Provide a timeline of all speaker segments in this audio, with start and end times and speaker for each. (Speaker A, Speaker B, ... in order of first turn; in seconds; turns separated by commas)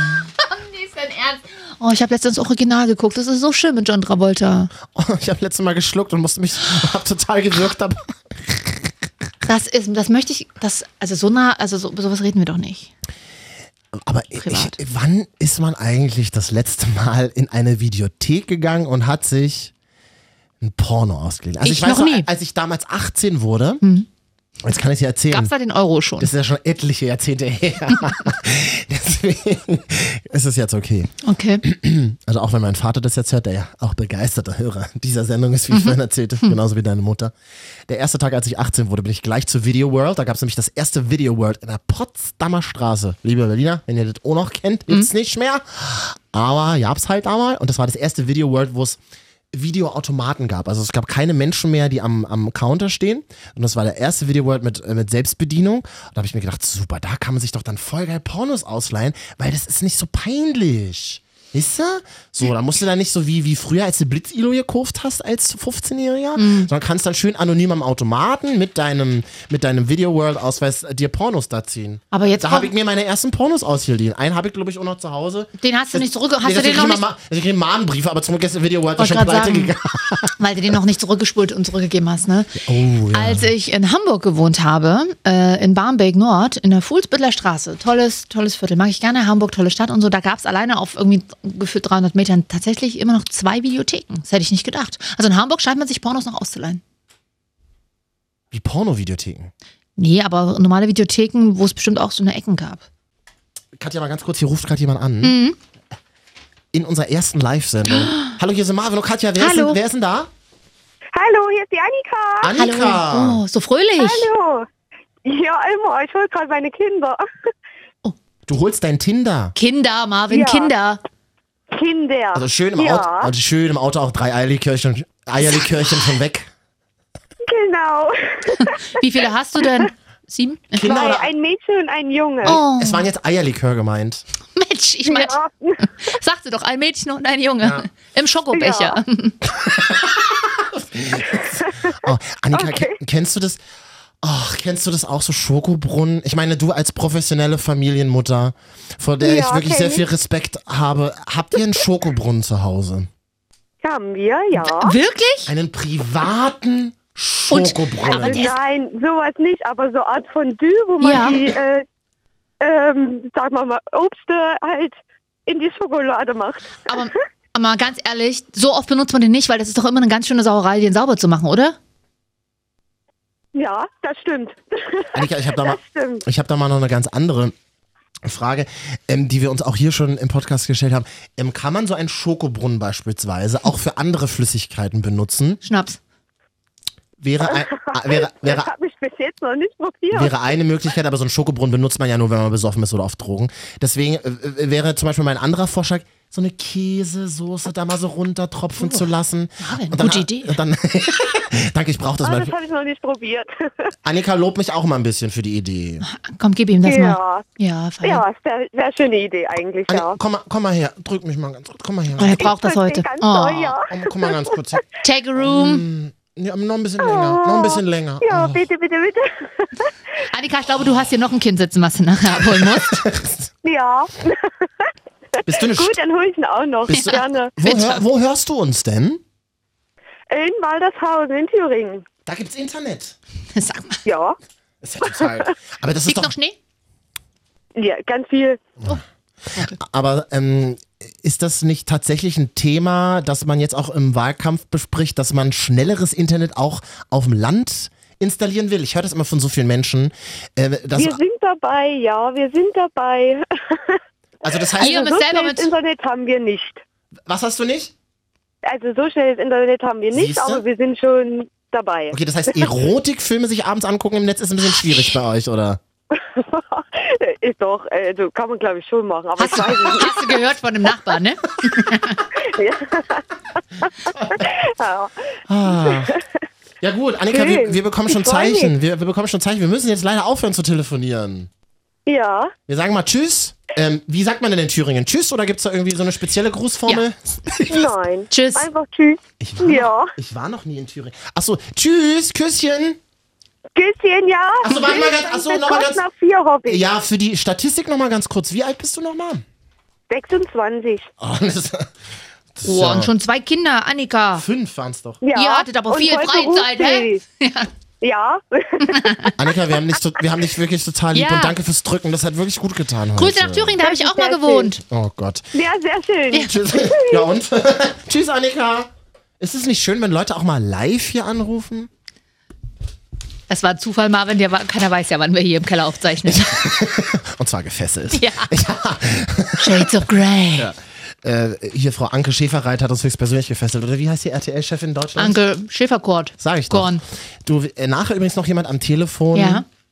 Speaker A: 0.4-4.7, Speaker B: 4.9-8.8, Speaker A: 9.4-12.9, Speaker B: 13.9-19.7, Speaker A: 14.3-14.8, Speaker B: 20.6-23.8, Speaker A: 21.6-22.3, Speaker A: 23.8-24.1, Speaker B: 24.6-25.5, Speaker A: 25.3-26.3, Speaker B: 26.2-31.1, Speaker A: 31.2-31.6, Speaker B: 31.6-37.3, Speaker A: 35.7-36.6, Speaker B: 37.9-49.0, Speaker B: 49.5-80.3, Speaker A: 66.3-66.7, Speaker A: 72.1-72.7, Speaker A: 75.6-77.0, Speaker A: 79.0-79.7, Speaker A: 80.4-96.8, Speaker B: 82.6-83.5, Speaker B: 98.5-99.5, Speaker A: 100.0-102.8, Speaker B: 103.8-105.4, Speaker A: 105.2-105.6, Speaker B: 106.7-110.3, Speaker A: 107.9-108.3, Speaker A: 109.4-109.8, Speaker C: 111.1-112.5, Speaker B: 112.4-113.4, Speaker A: 112.5-114.3, Speaker C: 114.0-114.7, Speaker C: 115.2-117.2, Speaker B: 118.5-119.5, Speaker A: 119.5-121.0, Speaker C: 120.3-120.7, Speaker C: 121.7-123.3, Speaker B: 122.3-126.5, Speaker C: 127.4-128.8, Speaker A: 128.5-130.8, Speaker B: 130.7-131.3, Speaker C: 130.8-132.6, Speaker B: 132.4-134.2, Speaker A: 132.4-133.1, Speaker A: 134.5-139.4, Speaker C: 135.1-135.8, Speaker B: 137.6-137.9, Speaker C: 138.5-139.0, Speaker B: 139.6-143.6, Speaker C: 141.6-141.9, Speaker C: 142.5-142.9, Speaker B: 144.2-153.1, Speaker C: 149.2-150.0, Speaker C: 153.8-154.9, Speaker A: 154.5-155.5, Speaker B: 155.4-158.4, Speaker A: 157.5-158.6, Speaker C: 158.1-161.8, Speaker A: 161.0-161.4, Speaker C: 162.6-166.8, Speaker A: 166.8-171.8, Speaker C: 173.5-176.2, Speaker B: 175.1-177.5, Speaker B: 178.2-185.6, Speaker A: 185.6-186.0, Speaker B: 187.2-188.7, Speaker C: 187.4-190.4, Speaker B: 190.1-202.5, Speaker A: 199.6-200.6, Speaker C: 202.2-203.5, Speaker B: 204.0-206.1, Speaker A: 206.0-208.2, Speaker C: 206.8-207.5, Speaker C: 208.0-210.2, Speaker B: 209.9-212.5, Speaker A: 212.2-213.8, Speaker C: 212.4-214.4, Speaker B: 213.9-214.8, Speaker A: 215.0-215.8, Speaker B: 215.3-218.6, Speaker C: 217.0-219.9, Speaker A: 220.3-223.0, Speaker B: 222.7-223.5, Speaker C: 223.6-224.9, Speaker B: 225.4-225.9, Speaker C: 225.6-227.5, Speaker B: 226.9-229.2, Speaker A: 226.9-228.0, Speaker C: 230.3-232.1, Speaker B: 232.2-233.2, Speaker A: 233.5-234.0, Speaker C: 234.1-234.4, Speaker B: 234.8-236.3, Speaker C: 235.0-235.5, Speaker A: 236.0-236.6, Speaker C: 237.8-238.6, Speaker B: 239.6-251.2, Speaker C: 250.9-254.0, Speaker B: 254.4-254.9, Speaker C: 254.8-256.8, Speaker A: 254.8-255.7, Speaker B: 257.3-257.9, Speaker C: 258.6-262.6, Speaker B: 260.1-260.6, Speaker B: 262.1-265.8, Speaker C: 266.1-270.3, Speaker A: 269.4-272.2, Speaker C: 272.4-273.2, Speaker C: 273.8-275.1, Speaker B: 274.2-274.4, Speaker B: 275.5-276.1, Speaker C: 275.8-276.2, Speaker B: 276.8-281.5, Speaker C: 277.3-278.7, Speaker C: 282.1-282.5, Speaker B: 282.7-287.9, Speaker C: 287.7-290.1, Speaker A: 288.3-288.7, Speaker B: 289.4-293.0, Speaker C: 293.8-296.8, Speaker B: 294.6-296.0, Speaker B: 296.6-299.4, Speaker C: 300.1-301.1, Speaker B: 301.2-301.9, Speaker B: 302.6-303.1, Speaker A: 302.6-304.4, Speaker B: 304.3-305.2, Speaker C: 305.2-307.2, Speaker A: 305.3-307.7, Speaker C: 308.0-309.2, Speaker A: 308.8-309.3, Speaker B: 309.4-313.8, Speaker A: 311.1-311.6, Speaker A: 313.1-314.8, Speaker C: 313.8-314.7, Speaker B: 314.8-315.5, Speaker C: 315.5-317.2, Speaker B: 316.3-318.9, Speaker B: 319.4-321.9, Speaker A: 323.5-326.6, Speaker B: 326.2-330.0, Speaker A: 328.1-328.5, Speaker A: 329.6-330.7, Speaker B: 330.6-335.4, Speaker A: 335.2-337.0, Speaker B: 336.4-339.6, Speaker A: 339.3-339.6